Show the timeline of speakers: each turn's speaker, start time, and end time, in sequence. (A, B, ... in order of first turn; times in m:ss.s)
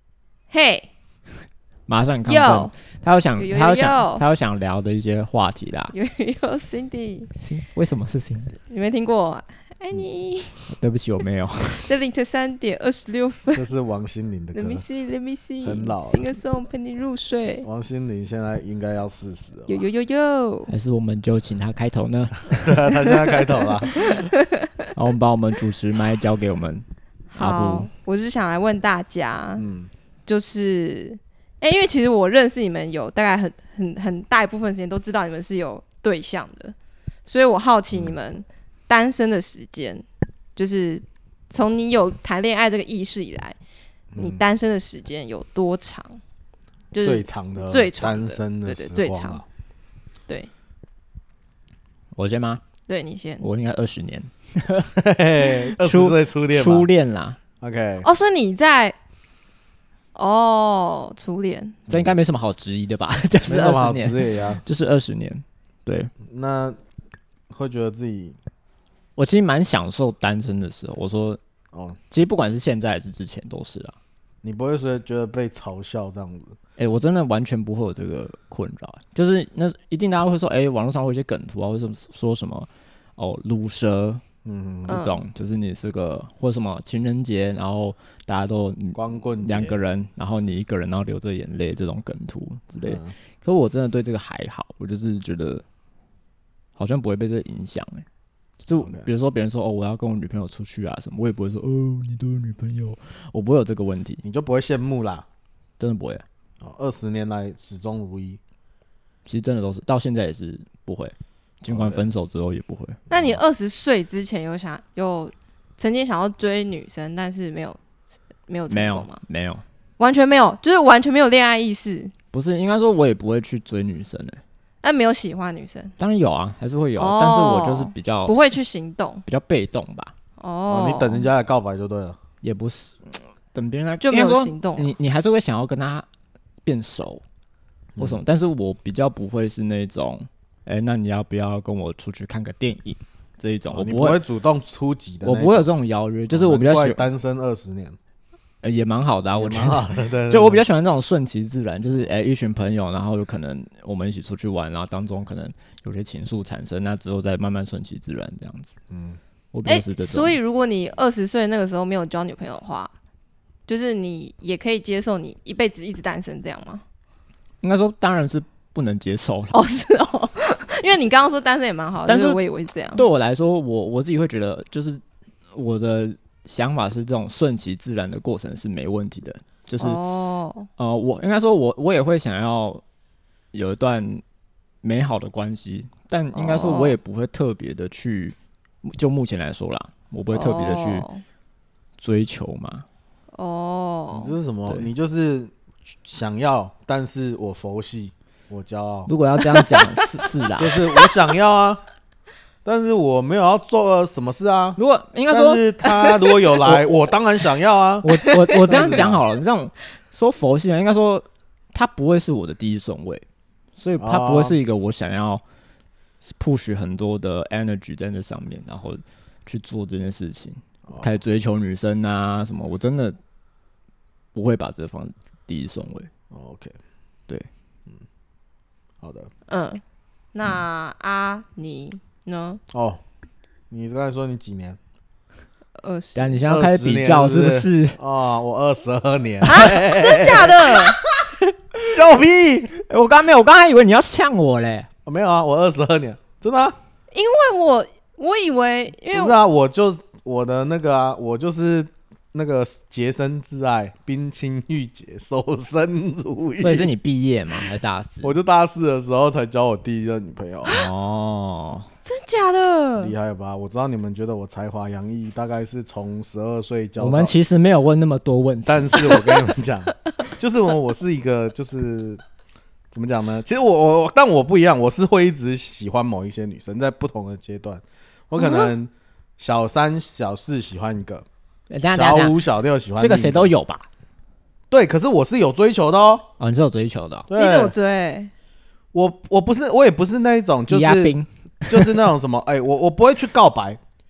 0:00.5-0:00.9 A
0:01.9-0:05.9 B
0:02.3-0:02.7 A
0:03.4-0:04.2 A
0:05.9-0:07.3 A
0:07.4-0:08.6 B
0:08.7-0:10.7 A
0:10.7-0:11.9 B
0:11.8-0:13.6 A
0:13.6-0:14.8 C
0:14.5-0:17.7 A
0:15.6-0:16.2 C
0:17.6-0:19.8 C
0:19.7-0:20.7 A
0:20.7-0:22.8 B
0:22.5-0:24.2 C
0:23.0-0:23.3 A
0:23.9-0:24.9 A
0:24.9-0:26.8 B
0:27.3-0:29.6 A
0:27.4-0:27.9 B
0:29.6-0:29.9 C
0:30.3-0:36.8 A
0:37.3-0:40.0 A
0:40.6-0:43.6 A
0:44.1-0:44.4 C
0:44.2-0:46.2 A
0:46.9-0:49.4 A
0:47.0-0:49.4 C
0:52.2-0:52.6 B
0:52.9-0:53.4 A
0:53.4-0:57.4 B
0:55.0-0:56.9 C
0:57.6-0:58.1 C
0:58.0-0:59.0 A
1:00.2-1:01.8 A
1:01.9-1:02.1 C
1:01.9-1:06.1 B
1:03.5-1:04.6 C
1:06.3-1:06.8 C
1:07.5-1:08.4 C
1:09.2-1:11.4 B
1:11.7-1:12.0 C
1:12.1-1:14.0 B
1:14.4-1:16.6 C
1:16.8-1:24.2 B
1:24.4-1:25.0 C
1:24.9-1:35.6 B
1:24.9-1:25.2 A
1:29.0-1:29.8 C
1:32.8-1:33.1 C
1:36.8-1:38.0 B
1:38.6-1:44.2 B
1:38.8-1:39.1 C
1:44.2-1:45.3 C
1:45.8-1:46.2 B
1:46.6-1:48.4 C
1:49.3-1:53.1 B
1:51.7-1:52.1 C
1:53.1-1:53.4 C
1:53.1-1:57.8 A
1:58.5-1:59.2 A
1:58.7-1:59.6 B
2:00.0-2:02.1 A
2:02.3-2:04.4 B
2:04.8-2:05.9 A
2:06.0-2:08.6 B
2:07.0-2:09.2 A
2:09.3-2:10.1 B
2:10.4-2:11.3 A
2:10.7-2:12.2 C
2:12.4-2:16.1 B
2:14.0-2:14.9 A
2:16.6-2:17.2 B
2:18.0-2:24.2 B
2:23.7-2:25.7 C
2:25.2-2:27.0 B
2:26.3-2:28.0 C
2:28.6-2:38.7 B
2:29.4-2:30.6 C
2:38.9-2:39.2 C
2:39.5-2:40.4 B
2:39.6-2:42.9 A
2:43.7-2:46.8 A
2:47.6-2:49.6 B
2:49.5-2:53.0 A
2:52.1-2:52.4 B
2:53.0-2:55.0 B
2:55.5-3:00.0 B
2:59.8-3:00.7 A
3:00.8-3:02.8 B
3:03.5-3:04.2 B
3:04.8-3:11.1 B
3:06.3-3:07.0 A
3:10.3-3:11.2 A
3:12.0-3:12.9 B
3:13.3-3:14.3 A
3:14.1-3:15.5 C
3:16.0-3:19.1 C
3:19.1-3:20.8 B
3:19.5-3:20.0 A
3:20.6-3:21.8 C
3:22.6-3:29.2 C
3:24.8-3:25.6 B
3:26.6-3:26.9 B
3:28.0-3:33.2 B
3:33.8-3:35.4 B
3:34.0-3:34.6 C
3:36.2-3:43.2 B
3:44.4-3:46.1 B
3:46.3-3:46.8 C
3:49.0-3:49.3 C
3:49.5-3:49.8 A
3:50.3-3:52.6 A
3:52.7-3:53.0 C
3:53.7-3:54.8 C
3:55.8-3:56.4 A
3:56.2-3:58.0 B
3:56.5-4:02.7 C
3:59.4-4:01.0 A
4:01.8-4:02.0 B
4:02.7-4:04.9 B
4:05.1-4:06.8 C
4:07.1-4:09.4 A
4:09.1-4:16.9 C
4:16.6-4:18.3 B
4:18.2-4:20.7 C
4:20.7-4:21.9 B
4:22.1-4:23.1 A
4:23.0-4:27.4 C
4:27.0-4:29.2 B
4:28.7-4:32.2 C
4:32.9-4:41.2 C
4:38.4-4:38.7 A
4:41.7-4:42.4 B
4:41.9-4:43.5 C
4:43.0-4:43.9 B
4:44.7-4:46.3 C
4:46.4-4:47.3 B
4:47.3-4:47.7 C
4:47.4-4:48.3 A
4:48.9-4:51.2 C
4:50.7-4:52.0 B
4:51.7-4:53.8 C